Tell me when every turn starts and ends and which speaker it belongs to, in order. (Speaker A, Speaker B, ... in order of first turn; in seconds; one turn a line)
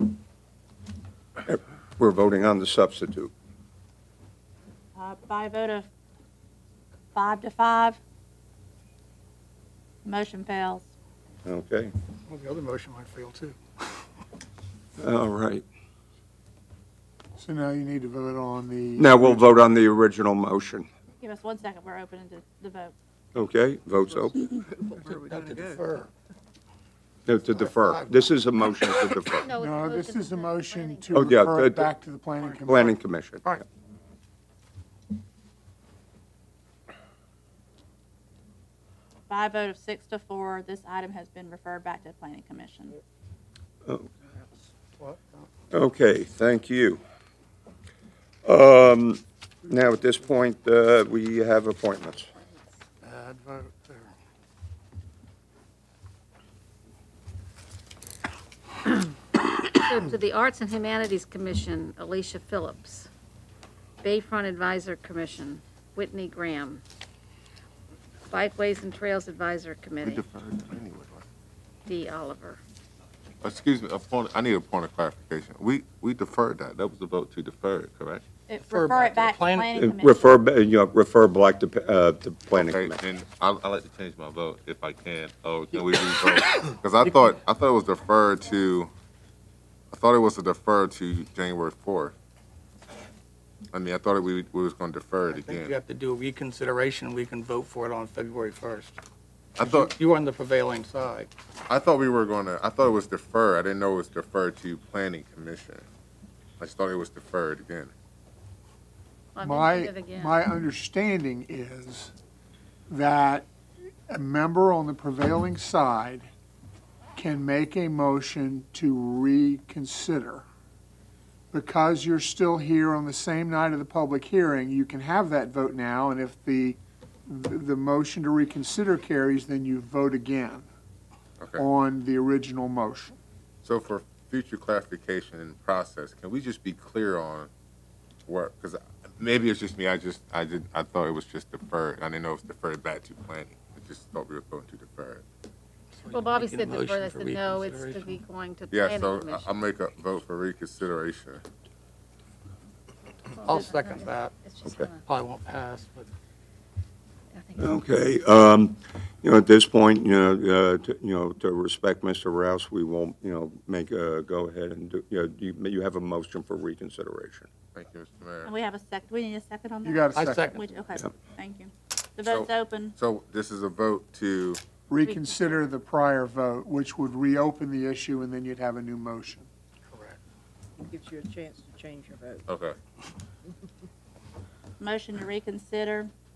Speaker A: 1.5-3.3
Speaker B: 5.0-5.9
Speaker B: 7.2-8.0
Speaker B: 10.1-10.9
Speaker A: 11.4-11.9
Speaker C: 12.3-14.1
Speaker A: 15.0-15.7
Speaker D: 17.4-19.5
Speaker A: 19.0-20.9
Speaker B: 21.2-22.9
Speaker A: 23.4-24.4
Speaker E: 24.1-26.0
Speaker C: 25.0-26.1
Speaker A: 27.3-29.5
Speaker C: 27.7-28.4
Speaker F: 29.4-31.3
Speaker D: 29.6-33.0
Speaker A: 31.1-31.9
Speaker A: 32.6-33.6
Speaker B: 39.3-43.0
Speaker A: 43.9-44.1
Speaker C: 45.0-45.5
Speaker A: 45.7-47.0
Speaker A: 48.5-52.3
Speaker C: 53.0-54.1
Speaker F: 59.8-63.1
Speaker F: 64.0-66.8
Speaker F: 68.3-70.2
Speaker G: 70.0-71.2
Speaker F: 71.9-72.6
Speaker G: 73.4-78.2
Speaker B: 78.5-80.4
Speaker C: 78.6-79.7
Speaker A: 79.8-83.0
Speaker G: 82.5-88.9
Speaker G: 89.9-92.2
Speaker G: 93.7-95.8
Speaker C: 95.3-99.0
Speaker G: 99.6-99.9
Speaker C: 99.6-101.3
Speaker G: 101.7-105.9
Speaker G: 106.6-107.9
Speaker F: 109.3-110.5
Speaker D: 109.4-112.1
Speaker D: 112.9-113.5
Speaker D: 114.1-116.3
Speaker D: 117.2-120.5
Speaker D: 121.5-130.7
Speaker D: 131.6-133.2
Speaker G: 133.6-137.5
Speaker G: 138.3-145.2
Speaker C: 145.9-148.2
Speaker F: 146.1-149.5
Speaker G: 148.7-151.4
Speaker F: 153.4-155.0
Speaker C: 153.4-154.3
Speaker C: 155.1-156.1
Speaker F: 157.3-157.8
Speaker A: 157.6-167.5
Speaker G: 167.7-168.5
Speaker B: 168.4-172.9
Speaker D: 169.8-170.6
Speaker C: 170.2-170.6
Speaker G: 172.3-174.6
Speaker D: 174.9-179.5
Speaker B: 175.0-175.7
Speaker C: 179.9-180.2
Speaker E: 180.8-182.4
Speaker G: 182.5-182.8
Speaker B: 184.8-186.1